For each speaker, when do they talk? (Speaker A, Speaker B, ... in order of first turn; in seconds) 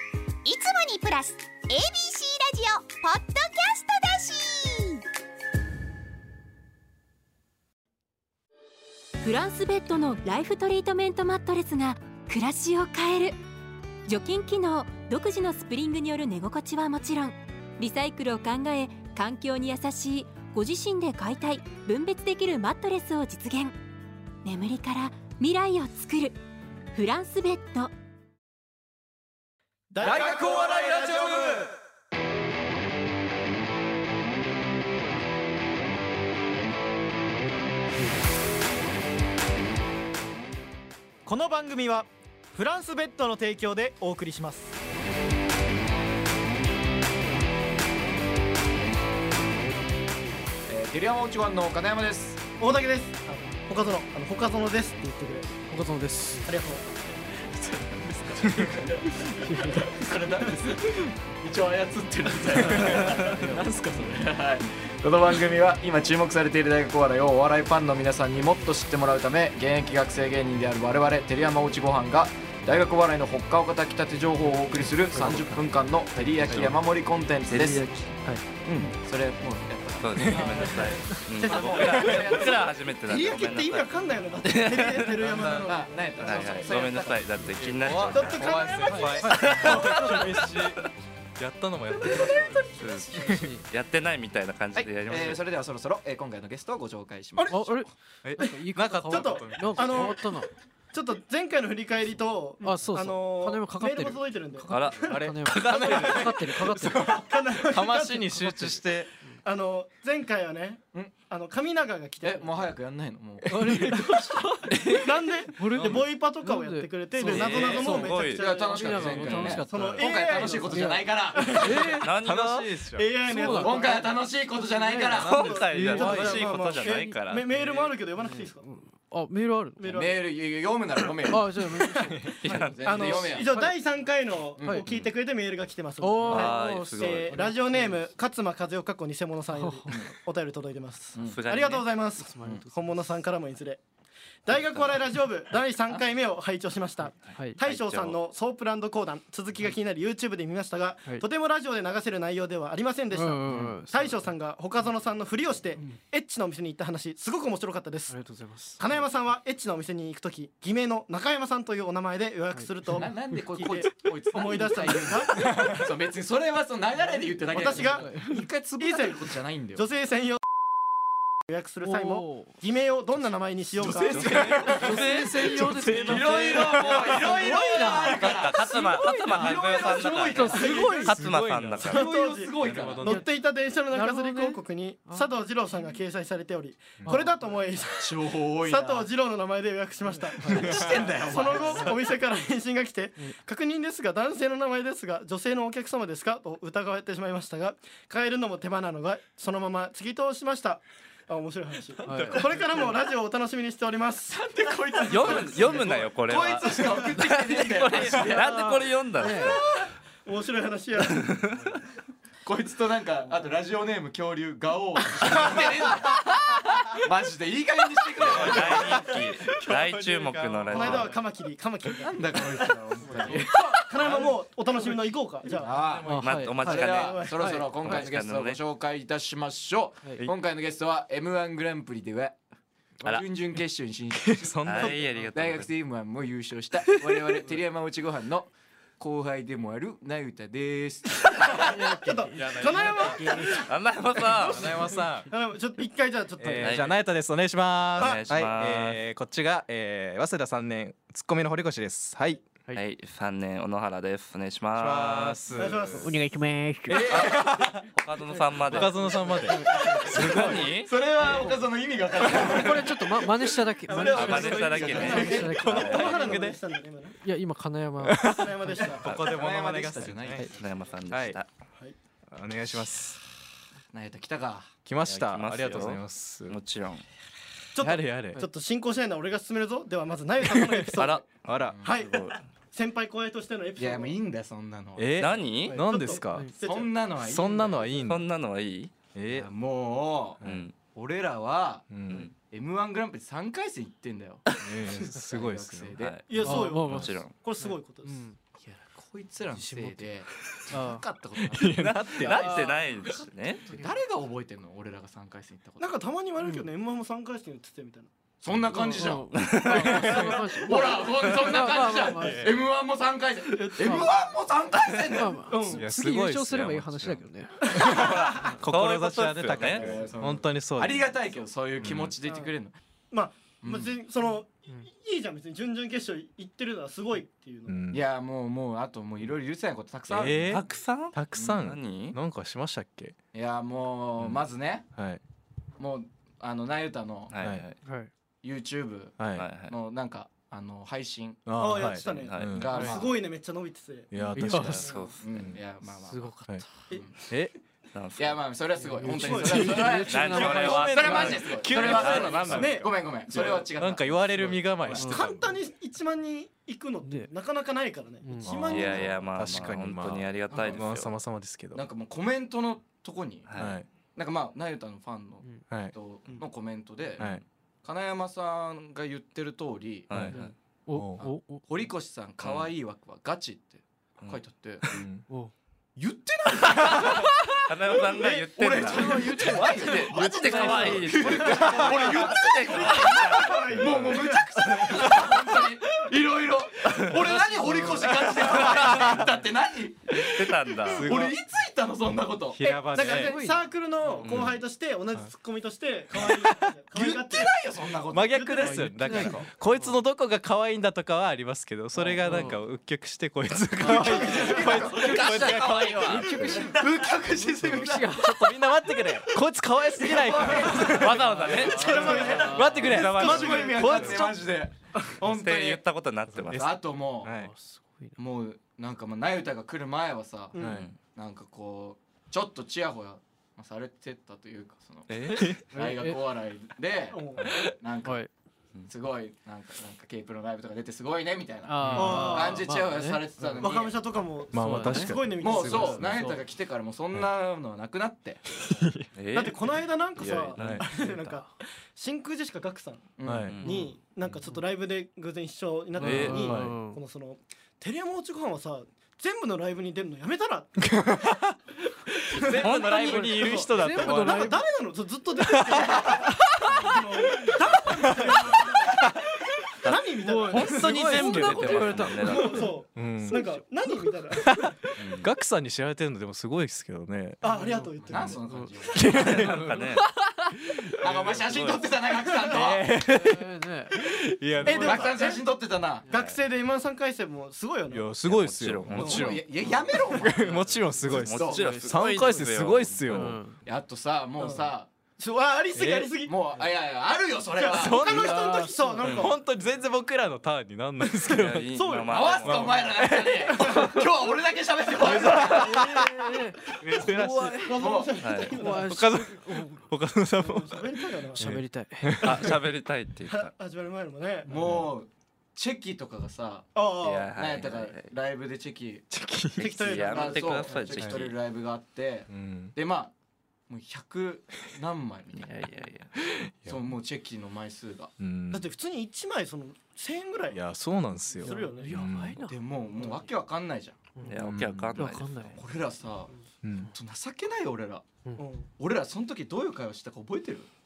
Speaker A: 0.4-5.0
Speaker B: 9.2-13.4, 14.1-23.8, 24.4-26.4, 26.9-27.9
Speaker C: 29.9-31.7, 41.3-44.7, 52.6-55.6, 56.4-57.1, 81.3-82.2, 83.0-86.7, 88.1-90.4, 97.4-97.7, 99.1-100.3, 100.9-105.2, 107.0-108.8, 109.4-112.5, 114.9-122.1, 123.0-128.7, 129.8-130.2, 132.8-143.8, 144.5-165.6, 167.5-168.1, 168.8-169.2, 169.8-170.4, 171.5-174.5, 180.5-181.1, 181.9-204.4, 205.0-205.7, 208.4-209.6, 210.2-211.4, 220.7-222.8, 223.4-225.8, 226.7-227.4, 241.9-243.7, 245.3-246.8, 255.5-256.2, 259.2-260.1, 263.8-267.2, 268.2-269.1, 277.7-281.2, 281.8-284.2, 285.7-286.9, 296.3-298.3, 305.8-308.1, 310.7-311.1, 313.5-314.0, 315.5-315.9, 317.6-318.5, 322.2-322.5, 323.1-327.8, 341.6-344.1, 349.0-349.9, 352.5-352.9, 355.0-359.3, 378.2-378.5, 379.0-379.2, 380.5-384.4, 392.6-397.5, 398.3-399.4, 403.9-404.8, 411.7-414.2, 420.5-420.8, 427.1-427.5, 431.9-432.6, 433.6-436.0, 439.3-443.1, 443.6-450.9, 453.4-459.2, 459.8-464.6, 467.4-468.4, 472.3-472.6, 474.6-475.4, 476.1-478.1, 479.0-479.3, 484.4-486.4, 487.6-489.4, 491.7-492.4, 493.5-493.9, 497.6-499.1, 500.4-501.6, 503.3-504.5, 506.8-507.3, 509.6-510.9, 518.5-520.6, 521.4-522.0, 528.4-528.7
Speaker D: 30.0-31.7, 50.7-52.4, 57.5-77.9, 78.6-80.9, 81.4-82.7, 85.5-87.5, 94.8-97.8, 112.2-114.0, 118.3-121.7, 123.5-125.6, 129.9-131.7, 132.4-133.6, 134.6-134.8, 162.9-169.8, 173.8-180.9, 181.9-183.2, 188.0-189.1, 190.5-191.9, 204.3-208.7, 212.4-216.2, 217.0-219.1, 222.1-224.3, 225.6-232.3, 233.0-241.9, 257.0-257.4, 259.7-263.3, 264.0-265.7, 268.8-270.7, 273.9-274.7, 281.7-282.0, 283.8-285.3, 286.6-288.1, 289.3-296.2, 298.6-302.5, 303.7-305.9, 308.4-315.5, 319.5-322.8, 323.6-323.9, 327.9-330.6, 331.3-331.7, 333.3-334.9, 335.8-337.3, 338.4-341.4, 342.6-343.1, 345.2-347.2, 348.2-355.1, 358.7-359.2, 360.5-360.8, 361.7-363.6, 364.1-370.2, 371.2-375.0, 376.0-377.3, 378.6-393.4, 396.9-398.6, 402.0-402.5, 403.8-408.4, 410.0-415.8, 416.5-417.3, 418.2-428.2, 428.9-433.9, 435.4-438.4, 443.2-443.6, 468.0-469.4, 471.0-472.9, 474.6-476.1, 478.9-480.5, 481.1-481.8, 483.6-484.9, 486.3-488.0, 492.1-495.8, 497.8-498.1, 504.5-506.8, 507.3-509.1, 510.1-513.1, 513.7-515.5, 516.7-518.1, 522.4-524.0, 525.6-526.3, 526.9-528.1, 528.8-530.7
Speaker E: 55.7-56.5, 59.2-60.0, 62.7-63.7, 93.3-93.6, 97.5-100.5, 102.6-107.2, 113.5-122.2, 123.2-124.0, 125.8-126.3, 127.5-130.1, 131.2-132.4, 133.3-133.8, 136.0-138.1, 139.6-139.8, 142.3-142.7, 153.1-154.3, 158.1-159.0, 167.7-168.4, 171.8-172.5, 174.6-181.3, 183.9-185.3, 187.1-187.3, 190.1-192.1, 202.0-202.9, 209.2-209.6, 226.1-226.8, 227.4-228.0, 241.5-243.7, 256.0-257.1, 258.8-260.7, 262.3-266.6, 267.2-268.9, 285.6-286.5, 296.4-298.4, 299.5-301.1, 302.3-302.8, 306.4-306.7, 308.8-312.5, 313.8-314.1, 315.1-317.7, 337.8-338.1, 344.2-345.1, 346.0-346.7, 348.8-351.2, 355.0-355.3, 358.2-359.0, 370.3-371.7, 387.3-388.1, 393.2-393.7, 398.6-399.9, 402.2-402.6, 404.0-404.6, 406.1-408.5, 411.6-413.0, 417.3-418.2, 425.7-426.2, 428.0-428.3, 431.7-433.7, 434.5-436.4, 440.9-441.4, 446.0-447.0, 453.0-454.6, 460.2-464.1, 467.4-470.5, 473.0-474.0, 480.4-482.4, 483.1-483.6, 488.1-489.1, 495.5-497.7, 498.6-499.8, 501.4-502.5, 521.4-523.1, 524.2-525.6
Speaker F: 76.5-76.7, 80.2-80.9, 81.9-82.2, 87.5-93.5, 98.2-100.2, 105.1-109.1, 113.7-113.9, 122.2-123.1, 125.7-126.9, 165.3-165.9, 174.2-177.2, 179.4-180.2, 180.9-182.0, 182.6-183.3, 190.5-191.4, 218.3-221.1, 224.0-224.3, 225.6-226.5, 234.2-235.1, 242.4-243.2, 244.3-245.3, 246.4-252.6, 254.8-256.1, 256.9-257.9, 258.6-260.6, 264.3-266.6, 268.0-270.5, 271.1-271.4, 272.3-273.2, 274.9-276.6, 277.8-278.4, 280.4-280.9, 281.5-281.8, 285.0-286.5, 287.2-288.2, 289.1-289.5, 290.4-290.7, 291.9-292.3, 294.6-295.9, 301.4-302.6, 308.5-309.1, 310.0-310.4, 312.2-312.5, 315.7-316.9, 317.7-321.1, 321.8-322.1, 327.7-328.0, 330.1-333.1, 334.9-335.2, 337.4-337.7, 339.2-339.5, 341.5-343.1, 344.1-345.0, 347.3-347.5, 350.2-355.6, 359.3-361.9, 363.6-363.9, 365.7-365.9, 367.2-367.4, 370.1-370.4, 370.9-371.3, 374.9-375.3, 380.6-381.0, 383.8-384.3, 384.8-385.4, 387.7-389.3, 390.4-391.4, 392.5-393.3, 396.2-396.6, 398.1-406.7, 408.1-414.6, 416.4-416.7, 417.2-417.5, 420.6-420.9, 425.1-425.7, 427.4-427.7, 431.8-432.4, 434.5-436.4, 438.6-439.1, 440.6-440.9, 443.3-443.7, 446.0-446.8, 450.9-451.6, 452.1-454.6, 455.7-459.1, 461.1-461.9, 462.9-463.4, 464.5-467.4, 468.9-469.9, 470.7-471.6, 472.5-475.3, 477.9-483.4, 485.8-486.1, 487.7-491.8, 492.4-494.0, 495.0-497.9, 498.8-502.6, 504.5-504.9, 509.1-509.8, 511.0-511.3, 512.3-512.7, 516.2-516.9, 518.2-518.7, 520.5-522.4, 524.4-525.0, 526.6-526.9
Speaker G: 80.0-90.8, 92.7-95.4, 104.7-106.6, 117.2-118.5, 122.0-122.7, 125.2-127.5, 132.4-133.0, 136.3-137.4, 141.2-141.9, 144.5-145.1, 147.3-148.2, 178.1-182.1, 205.1-209.6, 215.3-216.0, 218.2-221.1, 226.2-228.6, 234.6-235.7, 243.5-244.7, 246.6-246.9, 248.0-249.0, 252.7-255.4, 257.9-259.1, 260.1-260.9, 264.1-266.1, 269.1-269.3, 270.5-271.5, 275.0-277.1, 281.0-282.4, 285.2-285.8, 288.1-288.9, 290.4-290.7, 294.5-294.8, 296.0-297.3, 301.6-303.7, 309.3-309.9, 316.6-319.9, 330.5-332.2, 337.3-337.8, 339.4-339.8, 341.8-342.7, 344.4-345.6, 347.9-348.5, 349.8-352.7, 358.6-361.1, 363.5-363.8, 370.1-370.5, 372.4-372.7, 376.9-383.7, 386.9-387.1, 388.4-389.1, 390.2-391.1, 394.2-394.6, 404.8-406.5, 410.7-414.0, 415.2-416.8, 420.6-420.9, 439.2-441.1, 443.5-443.9, 446.0-446.7, 452.4-453.5, 459.8-462.7, 465.0-465.3, 469.1-470.1, 471.4-471.9, 478.2-479.4, 481.1-483.3, 491.3-492.9, 495.3-495.7, 498.2-498.6, 502.2-503.5, 507.0-508.1, 509.6-511.4, 515.4-516.1, 524.2-525.6